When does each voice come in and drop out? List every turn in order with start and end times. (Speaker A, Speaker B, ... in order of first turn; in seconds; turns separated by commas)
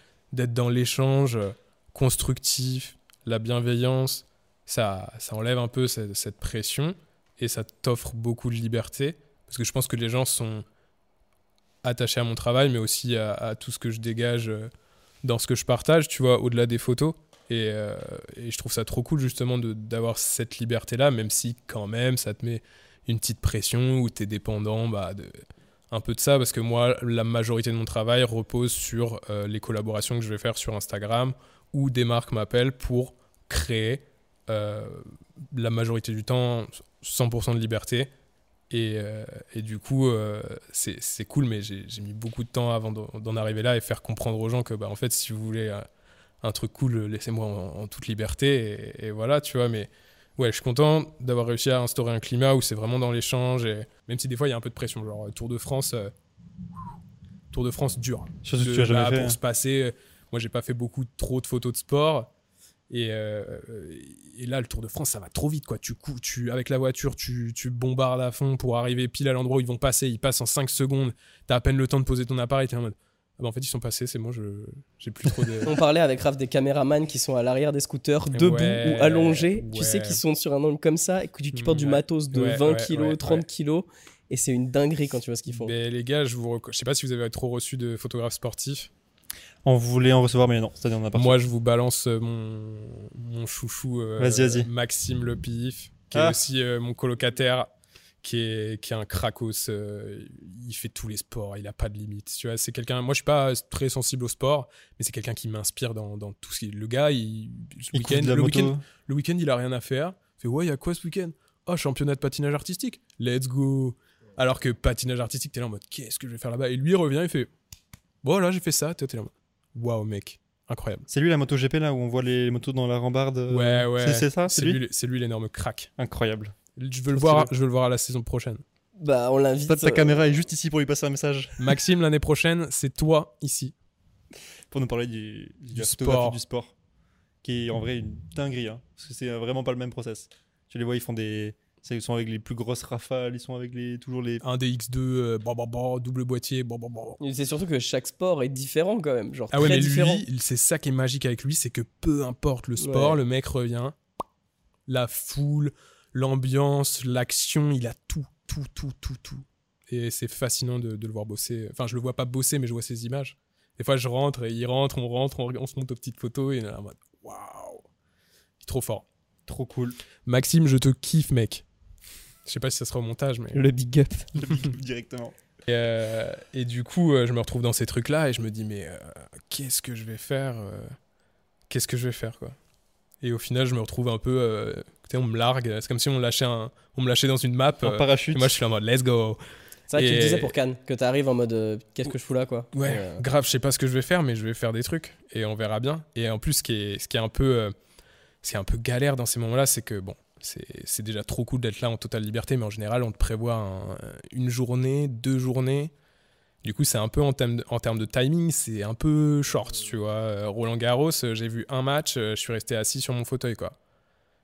Speaker A: 0.3-10.6, Speaker A: 11.8-14.7, Speaker A: 15.2-38.1, Speaker A: 38.7-45.9, Speaker A: 46.4-56.1, Speaker A: 57.5-62.3, Speaker B: 58.4-59.4, Speaker A: 62.9-75.8, Speaker C: 75.6-85.7, Speaker A: 78.3-80.2, Speaker A: 81.5-83.4, Speaker A: 85.5-88.9, Speaker B: 89.6-91.4, Speaker A: 91.1-97.7, Speaker B: 94.2-94.7, Speaker B: 96.1-96.4, Speaker A: 98.2-117.5, Speaker B: 107.9-108.8, Speaker A: 118.2-121.0, Speaker B: 121.1-124.8, Speaker A: 123.5-125.9, Speaker B: 126.0-126.5, Speaker A: 126.8-128.6, Speaker B: 127.2-127.5, Speaker C: 129.0-130.2, Speaker B: 129.7-131.7, Speaker A: 131.6-133.7, Speaker B: 134.7-136.7, Speaker A: 135.7-136.4, Speaker B: 137.4-144.4, Speaker A: 144.4-147.2, Speaker C: 147.2-150.2, Speaker A: 149.5-153.9, Speaker C: 152.8-153.2, Speaker A: 154.9-167.9, Speaker A: 168.6-169.0, Speaker B: 169.5-170.0, Speaker A: 170.2-171.6, Speaker A: 172.4-173.6, Speaker C: 173.5-174.3, Speaker B: 174.3-175.3, Speaker A: 175.7-180.9, Speaker A: 181.7-182.6, Speaker A: 183.2-189.4, Speaker B: 187.8-188.5, Speaker C: 189.9-193.2, Speaker A: 189.9-190.5, Speaker A: 192.7-197.7, Speaker A: 198.4-205.9, Speaker A: 206.6-213.8